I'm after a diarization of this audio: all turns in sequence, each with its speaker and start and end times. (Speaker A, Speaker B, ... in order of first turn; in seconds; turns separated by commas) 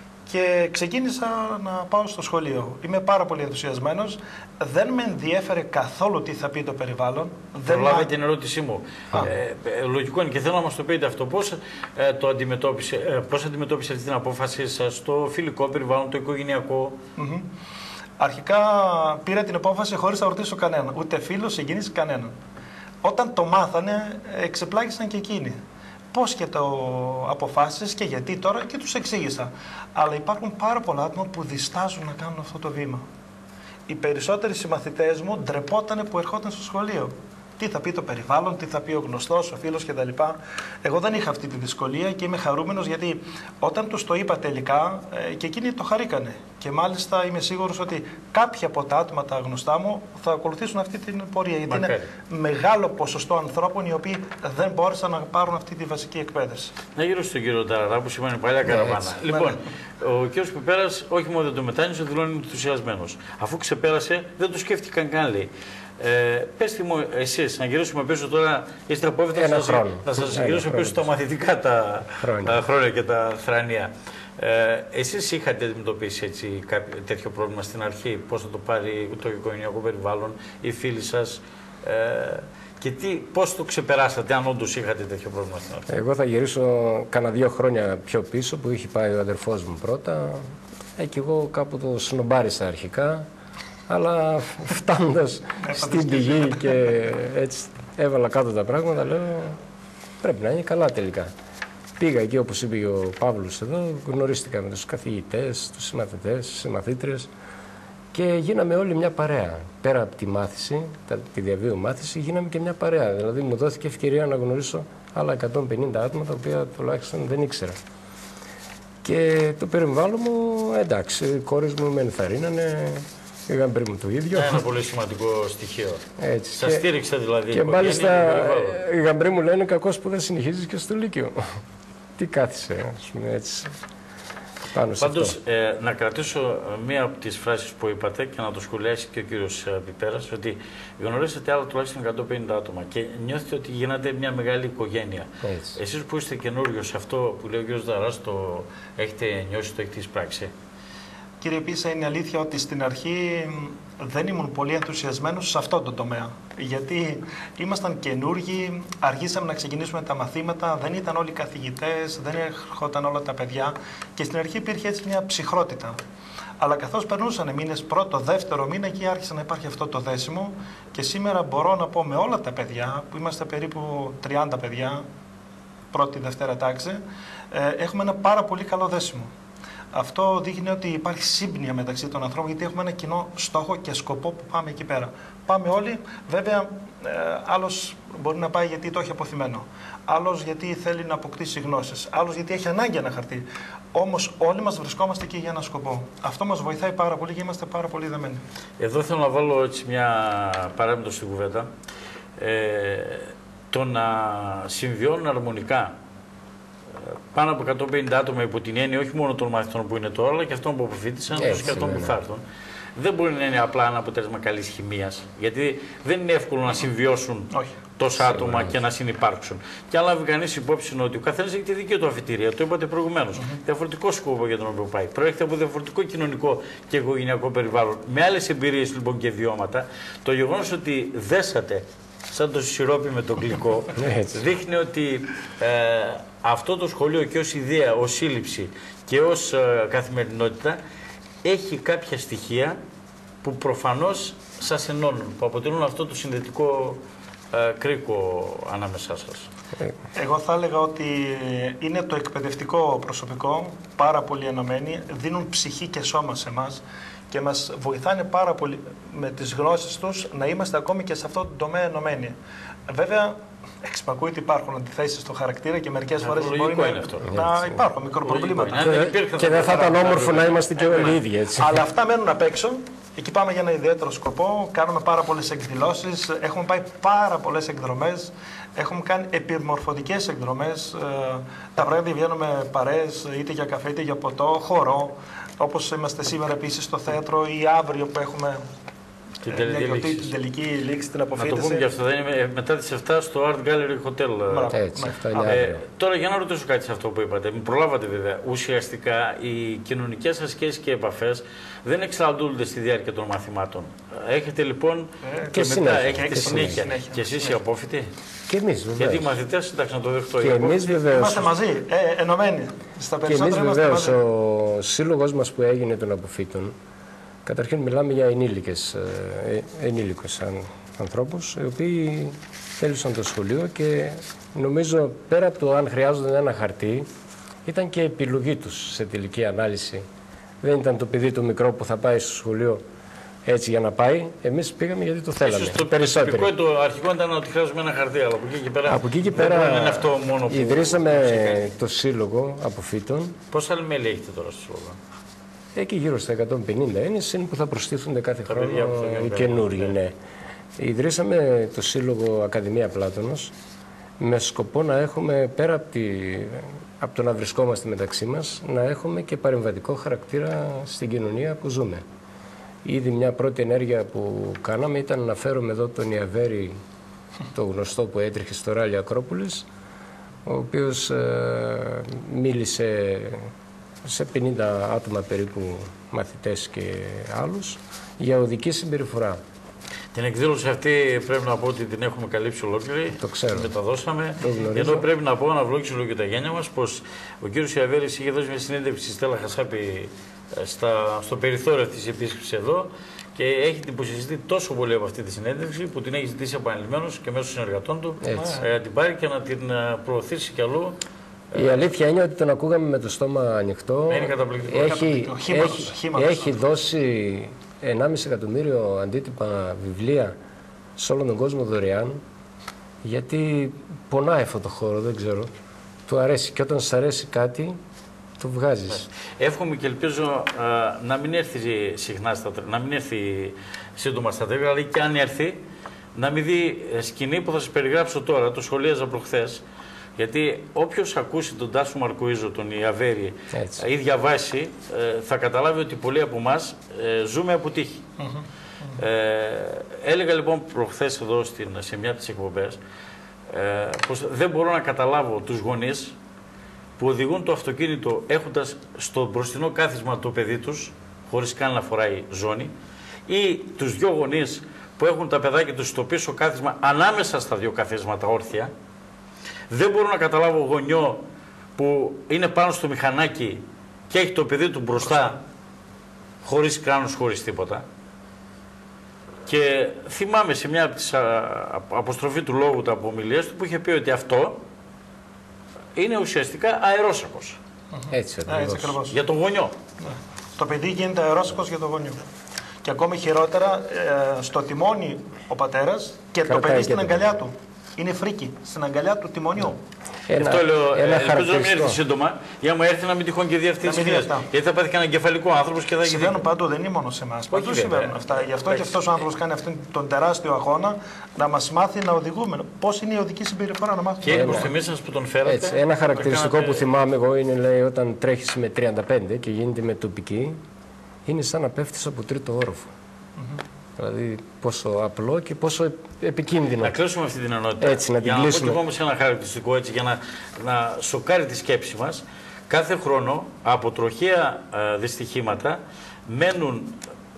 Speaker A: 0.3-8.1, Speaker B: 7.5-17.0, Speaker A: 17.2-17.4, Speaker A: 18.2-22.3, Speaker A: 23.0-25.6, Speaker A: 26.1-33.0, Speaker A: 33.9-56.7, Speaker B: 51.7-52.1, Speaker B: 56.9-85.9, Speaker C: 58.6-59.2, Speaker C: 69.3-71.1, Speaker C: 72.2-72.6, Speaker C: 85.9-93.2, Speaker C: 93.9-99.6, Speaker A: 95.6-96.8, Speaker C: 100.2-101.3, Speaker C: 102.0-107.3, Speaker C: 108.1-117.8, Speaker C: 119.0-124.6, Speaker B: 124.3-128.8, Speaker C: 126.2-126.8, Speaker C: 127.5-131.4, Speaker C: 132.2-133.8, Speaker C: 134.7-135.3, Speaker B: 135.0-150.5, Speaker C: 145.4-145.8, Speaker A: 151.4-166.0, Speaker A: 166.6-175.0, Speaker A: 175.9-179.3, Speaker A: 179.9-198.4, Speaker B: 198.8-201.7, Speaker B: 202.4-205.9, Speaker B: 207.0-212.4, Speaker C: 211.3-212.2, Speaker B: 212.9-240.8, Speaker C: 218.2-218.8, Speaker C: 233.9-234.4, Speaker B: 241.4-242.8, Speaker B: 243.4-247.0, Speaker B: 247.5-249.5, Speaker A: 250.1-262.4, Speaker A: 262.9-269.0, Speaker B: 266.2-267.4, Speaker C: 267.3-267.6, Speaker B: 268.2-271.1, Speaker C: 268.8-271.8, Speaker A: 271.5-288.6, Speaker B: 289.4-290.3, Speaker A: 289.5-291.9, Speaker B: 291.4-294.7, Speaker A: 294.5-295.6, Speaker C: 294.7-295.8, Speaker B: 295.4-308.1, Speaker A: 305.2-307.6, Speaker C: 305.5-306.8, Speaker C: 308.5-309.3, Speaker B: 309.0-310.9, Speaker C: 310.4-311.5, Speaker A: 311.0-314.2, Speaker C: 313.2-316.7, Speaker C: 317.4-327.1, Speaker C: 327.6-330.0, Speaker C: 330.6-332.8, Speaker C: 333.4-336.5, Speaker B: 335.4-341.7, Speaker C: 338.9-343.4, Speaker B: 343.5-345.0, Speaker C: 345.7-350.1, Speaker B: 348.5-349.9, Speaker C: 350.8-353.5, Speaker C: 354.2-362.0, Speaker C: 362.8-366.8, Speaker C: 367.5-369.7, Speaker C: 370.4-373.5, Speaker C: 374.0-379.4, Speaker B: 380.1-401.0, Speaker C: 383.1-383.7, Speaker C: 384.4-385.1, Speaker C: 398.2-398.5, Speaker A: 398.3-398.6, Speaker B: 401.5-401.8, Speaker C: 401.5-410.4, Speaker B: 404.1-405.0, Speaker A: 404.8-406.6, Speaker C: 411.0-412.2, Speaker C: 413.0-415.5, Speaker C: 416.1-417.8, Speaker C: 418.4-419.1, Speaker B: 418.9-425.6, Speaker B: 426.1-429.6, Speaker B: 430.2-438.0, Speaker C: 433.5-433.8, Speaker B: 439.0-442.8, Speaker B: 443.5-446.1, Speaker B: 447.0-452.7, Speaker B: 453.3-458.7, Speaker B: 459.7-461.2, Speaker B: 461.8-465.4, Speaker B: 466.4-467.8, Speaker B: 469.4-474.6, Speaker B: 475.9-477.6, Speaker A: 477.9-479.2, Speaker C: 478.1-479.0, Speaker B: 479.1-479.7, Speaker A: 480.0-482.2, Speaker A: 482.8-489.8, Speaker C: 486.4-487.4, Speaker C: 490.3-492.0, Speaker B: 490.4-496.4, Speaker A: 493.8-494.5, Speaker A: 496.0-504.7, Speaker B: 497.5-499.2, Speaker B: 504.2-506.9, Speaker C: 504.3-504.7, Speaker C: 505.4-510.6, Speaker C: 511.2-512.9, Speaker C: 514.0-517.0, Speaker B: 516.8-527.0, Speaker C: 517.8-518.8